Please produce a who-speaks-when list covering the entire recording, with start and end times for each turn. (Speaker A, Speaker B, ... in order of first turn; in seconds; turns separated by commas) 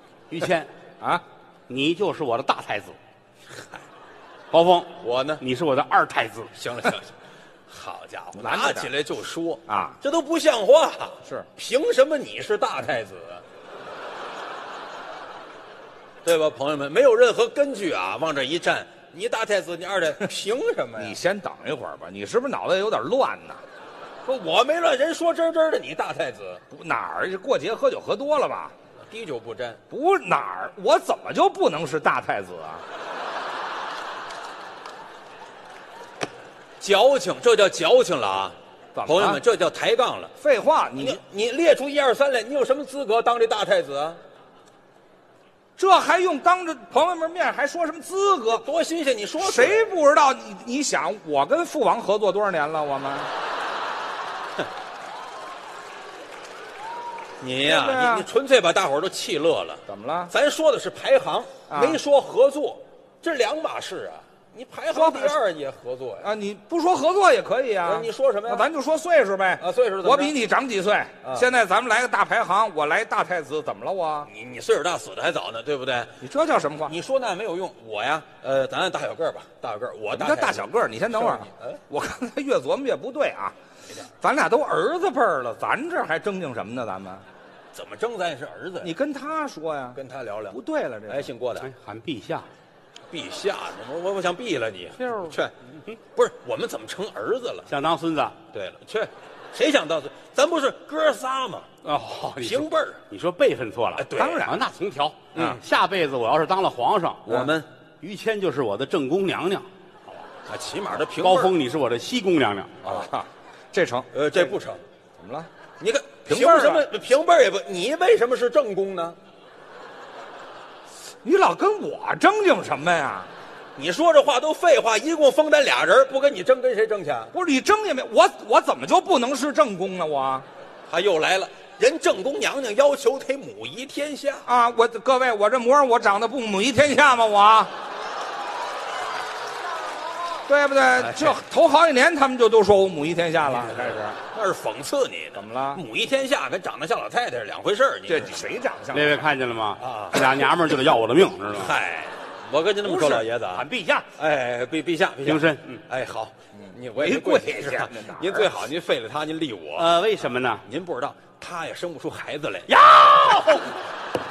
Speaker A: 0.3-0.7, Speaker A: 1.7-3.0, Speaker B: 3.5-3.8, Speaker A: 4.5-6.5, Speaker B: 5.0-5.4, Speaker B: 6.5-7.1, Speaker B: 7.7-13.4, Speaker C: 8.4-8.9, Speaker C: 9.7-10.0, Speaker B: 16.2-21.2, Speaker C: 21.0-23.6, Speaker B: 24.2-26.6, Speaker C: 26.7-28.7, Speaker B: 29.1-29.8, Speaker C: 29.9-32.8, Speaker B: 36.8-40.3, Speaker C: 38.9-39.4, Speaker C: 40.4-41.2, Speaker B: 41.0-44.2, Speaker C: 45.8-48.6, Speaker B: 48.5-49.9, Speaker C: 49.4-53.3, Speaker B: 57.4-66.3, Speaker C: 57.6-58.3, Speaker C: 59.9-60.3, Speaker C: 61.7-62.0, Speaker C: 64.9-65.3, Speaker C: 66.2-74.3, Speaker B: 67.8-68.6, Speaker B: 69.6-70.3, Speaker B: 74.3-76.2, Speaker C: 76.2-76.9, Speaker B: 76.9-81.8, Speaker C: 80.1-83.5, Speaker C: 84.2-87.2, Speaker B: 87.7-88.9, Speaker C: 88.8-90.0, Speaker B: 89.9-91.7, Speaker C: 90.5-91.3, Speaker A: 91.6-92.5, Speaker B: 93.1-95.5, Speaker A: 95.0-96.0, Speaker B: 96.1-97.7, Speaker A: 97.7-98.4, Speaker B: 98.5-101.7, Speaker A: 101.8-110.2, Speaker B: 102.4-103.0, Speaker B: 104.0-104.5, Speaker C: 104.2-104.6, Speaker B: 105.3-105.6, Speaker B: 107.2-107.7, Speaker B: 110.5-111.5, Speaker A: 111.1-112.8, Speaker B: 112.8-113.1, Speaker C: 112.8-114.5, Speaker B: 114.1-114.8, Speaker C: 115.2-115.5, Speaker B: 115.8-119.2, Speaker C: 116.3-116.9, Speaker C: 121.2-123.3, Speaker B: 123.8-127.3, Speaker C: 127.3-130.4, Speaker B: 130.9-134.4, Speaker C: 134.4-137.7, Speaker C: 140.5-144.2, Speaker B: 141.0-141.4, Speaker B: 144.3-148.6, Speaker C: 145.3-145.8, Speaker C: 148.1-149.2, Speaker A: 148.9-151.7, Speaker B: 149.8-150.3, Speaker B: 151.5-160.0, Speaker C: 152.8-153.3, Speaker A: 153.5-154.1, Speaker A: 155.2-155.8, Speaker C: 156.5-158.5, Speaker A: 159.8-160.6, Speaker B: 160.6-162.7, Speaker A: 162.7-163.8